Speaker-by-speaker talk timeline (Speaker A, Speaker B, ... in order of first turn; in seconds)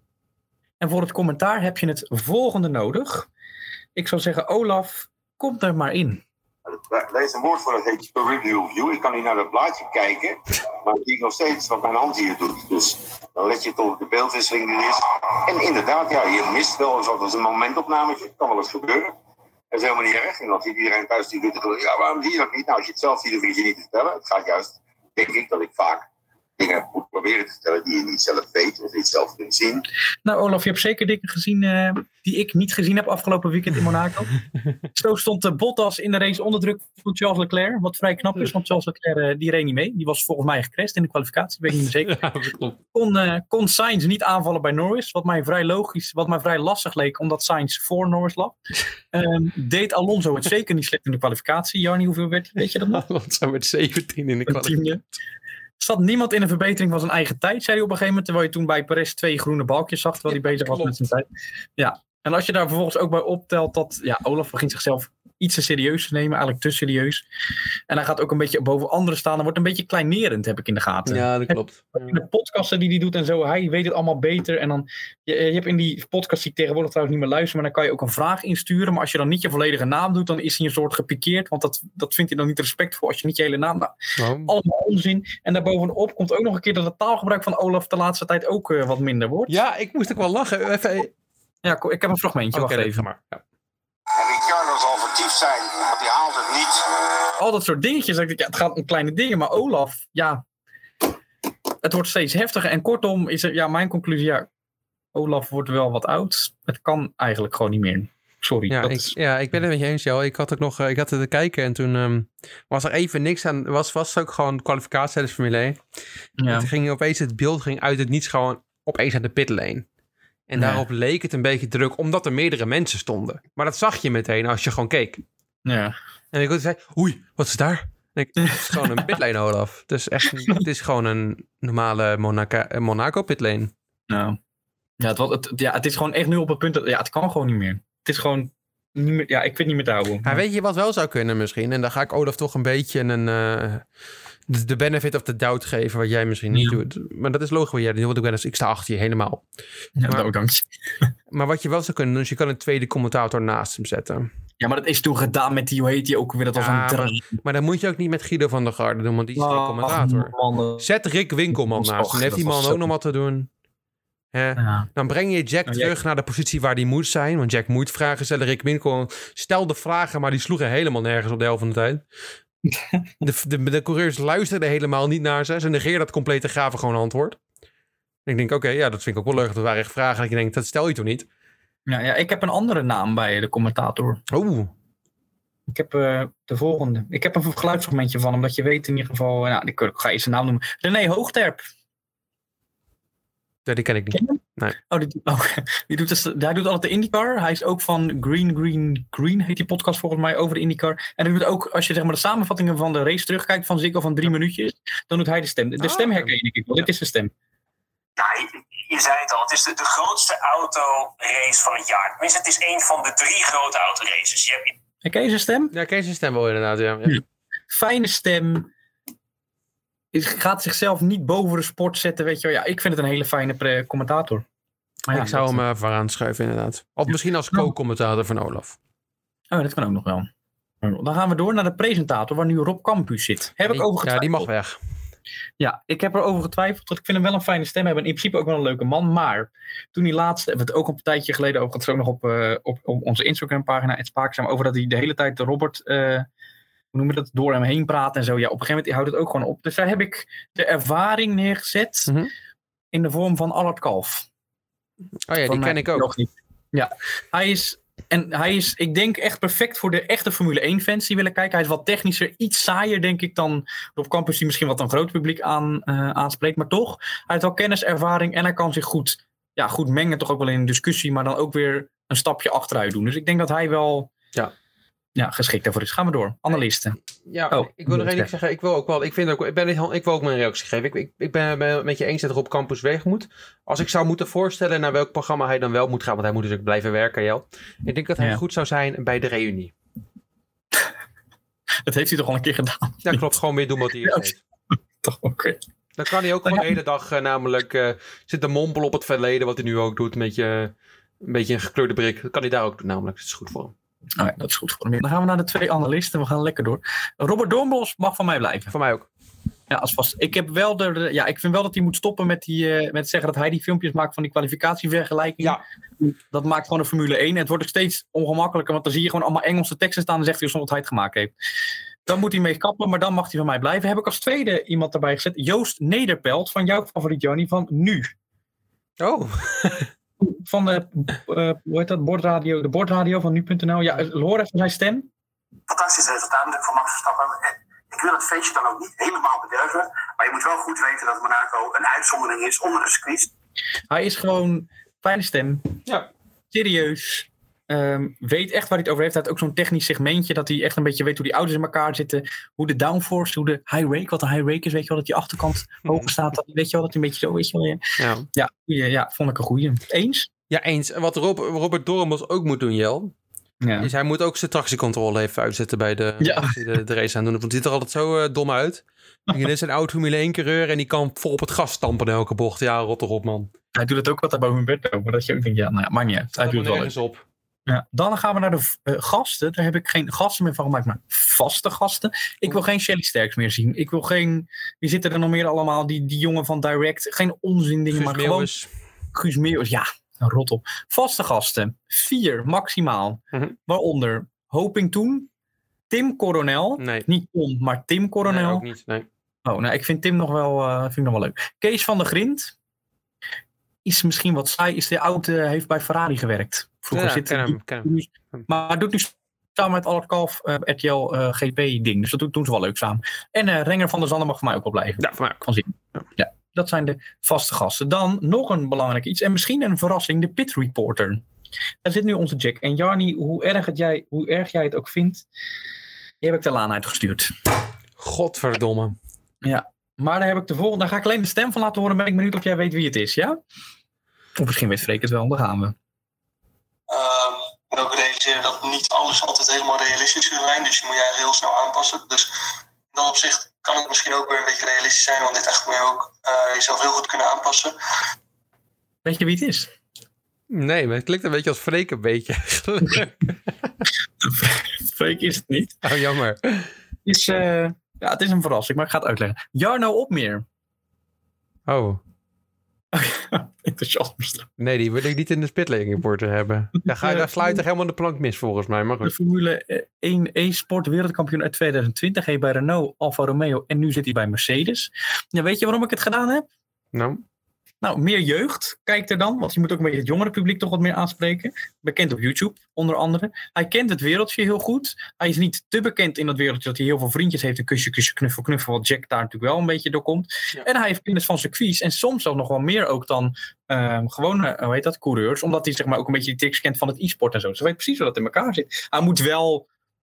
Speaker A: 0.8-3.3, 4.0-6.2, 30.2-34.3, 34.9-42.2, 42.9-48.6, 49.1-53.0, 54.5-55.0, 55.8-61.3, 61.8-67.3, 67.9-89.6, 91.6-93.1, 97.4-100.4, 101.8-104.5, 105.1-109.1, 116.4-116.7, 120.6-120.8, 125.7-126.0, 128.5-129.1, 130.4-130.7, 134.1-134.4, 135.0-140.4, 150.0-150.7, 154.6-157.4, 159.4-160.9, 161.5-162.9, 164.6-164.9, 165.7-165.9, 172.7-173.2, 181.9-184.2, 185.7-191.7, 194.1-207.3, 215.0-215.7, 217.1-218.7, 220.1-224.4, 225.1-225.6, 229.5-230.3, 230.8-234.5, 235.6-246.3, 246.9-252.1, 252.9-254.3, 255.5-274.1, 275.2-277.0, 277.5-278.3, 291.9-293.3, 294.0-294.3, 295.0-295.6, 304.2-308.7, 309.7-321.3, 322.1-328.1, 330.2-335.1, 343.9-345.7, 346.5-357.8, 358.3-360.3, 363.6-363.9, 366.2-366.5, 373.8-376.9, 377.7-388.5, 389.1-395.3, 395.9-398.6, 399.4-402.5, 403.9-421.2, 421.8-425.3, 426.2-427.3, 429.4-433.4, 434.4-435.8, 449.1-449.7, 454.2-455.8, 457.1-460.4, 462.9-464.5, 466.9-467.6, 469.0-476.5, 477.8-499.7
Speaker B: 6.7-19.1, 19.7-26.1, 26.6-29.9, 94.1-96.9
Speaker C: 42.0-42.8, 52.8-54.8, 60.3-60.9, 71.1-72.2, 84.2-84.5, 89.5-91.1, 92.5-93.4, 108.7-115.8, 116.5-119.9, 120.5-125.2, 126.3-133.7, 140.2-143.9, 144.5-149.4, 151.3-154.3, 156.6-163.5, 164.3-172.0, 173.2-177.4, 178.3-181.3, 184.3-184.7, 193.7-194.8, 205.8-206.3, 215.7-217.2, 225.1-228.8, 233.7-234.8, 255.3-256.1, 277.3-289.7, 293.0-294.4, 296.0-303.7, 308.7-309.1, 329.0-329.9, 358.0-358.3, 360.5-363.1, 363.8-373.5, 376.3-377.2, 387.9-388.7, 396.8-397.1, 398.2-399.1, 406.9-408.5, 415.0-415.4, 428.0-428.9, 450.5-453.7, 455.8-456.7, 461.7-462.0, 464.6-469.1, 476.9-477.2
Speaker D: 208.2-214.7, 335.7-343.3
Speaker E: 436.9-442.3, 442.9-447.7